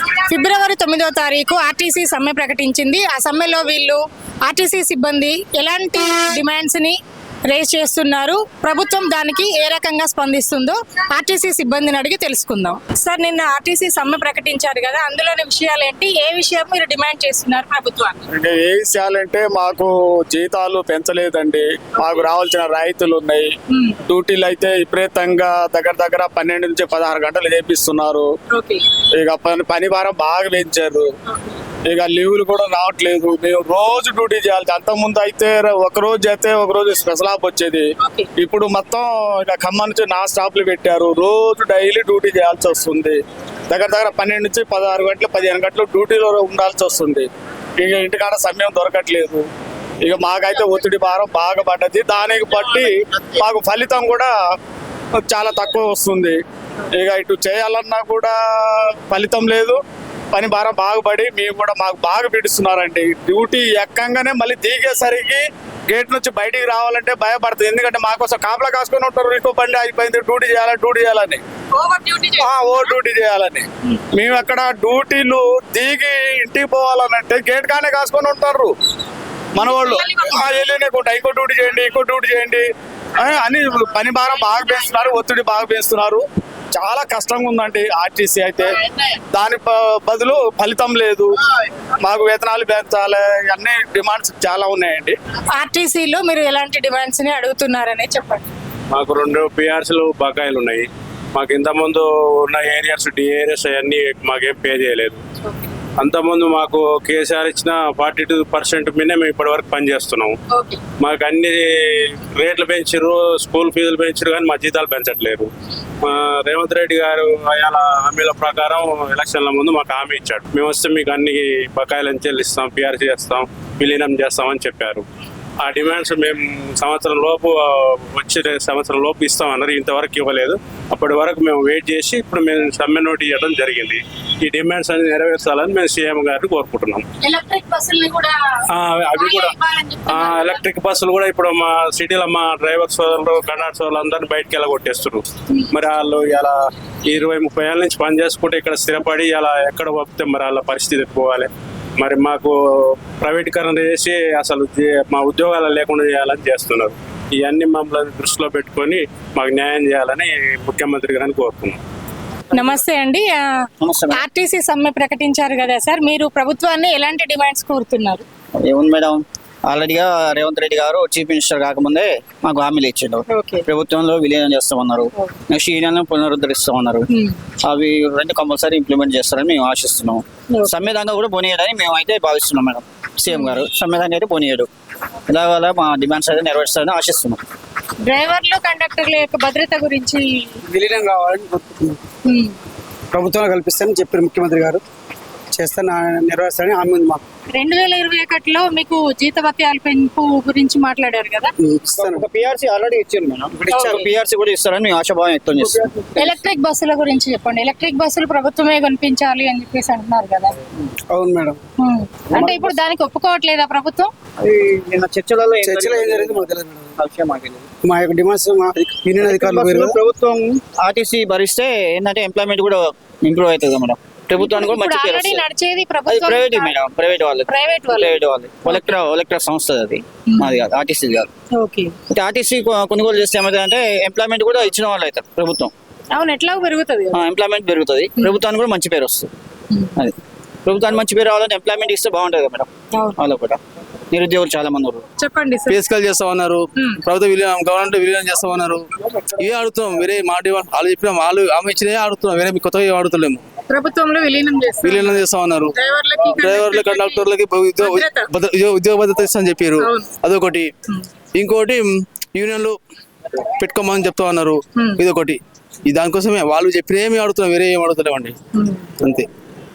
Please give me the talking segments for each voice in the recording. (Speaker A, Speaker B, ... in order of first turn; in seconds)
Speaker A: 0.3-18.2, 22.0-22.2, 23.7-24.0, 28.5-28.8, 31.3-31.6, 38.0-38.3, 71.7-72.9, 79.6-80.6, 95.5-98.5, 105.4-105.7, 110.5-110.8, 137.2-138.4, 139.2-140.6, 162.5-168.2, 173.3-173.6, 177.1-177.4, 180.5-180.8, 183.3-183.6, 188.0-190.6, 192.3-192.6, 197.5-201.5, 203.7-204.1, 206.2-210.5, 211.8-214.1, 224.3-226.8, 227.5-229.0, 230.3-230.6, 231.5-231.9, 236.1-237.3, 239.7-240.0, 242.9-243.2, 245.2-245.8, 246.8-247.0, 253.7-257.2, 257.8-258.3, 259.8-260.1, 264.7-265.0, 268.5-268.9
Speaker B: 18.3-23.5, 24.0-28.3, 29.2-31.1, 31.9-49.4, 50.0-54.3, 55.2-56.4, 56.9-59.8, 60.3-71.4, 72.4-78.7, 79.5-82.7, 83.2-88.7, 89.3-91.3, 92.0-95.2
Speaker C: 98.9-105.2, 106.0-110.3, 111.0-115.5, 116.0-125.0, 125.6-137.1, 138.7-139.5, 140.1-146.6, 147.1-152.6, 153.2-161.8
Speaker D: 163.8-164.2, 168.6-177.1, 177.6-184.7, 185.3-187.4, 202.0-205.7, 214.4-216.4, 217.0-217.7, 219.3-225.4, 226.2-231.3, 232.1-235.7, 237.2-239.3, 240.0-243.6, 244.1-245.0
Speaker E: 190.6-192.0, 193.1-194.8, 195.5-197.2, 201.6-202.2, 203.5-204.0, 205.6-206.3, 211.1-211.6, 212.3-212.7, 215.6-217.0, 217.8-220.0
Speaker F: 245.7-253.4, 254.8-260.7, 261.3-262.8, 263.6-268.3, 269.0-269.3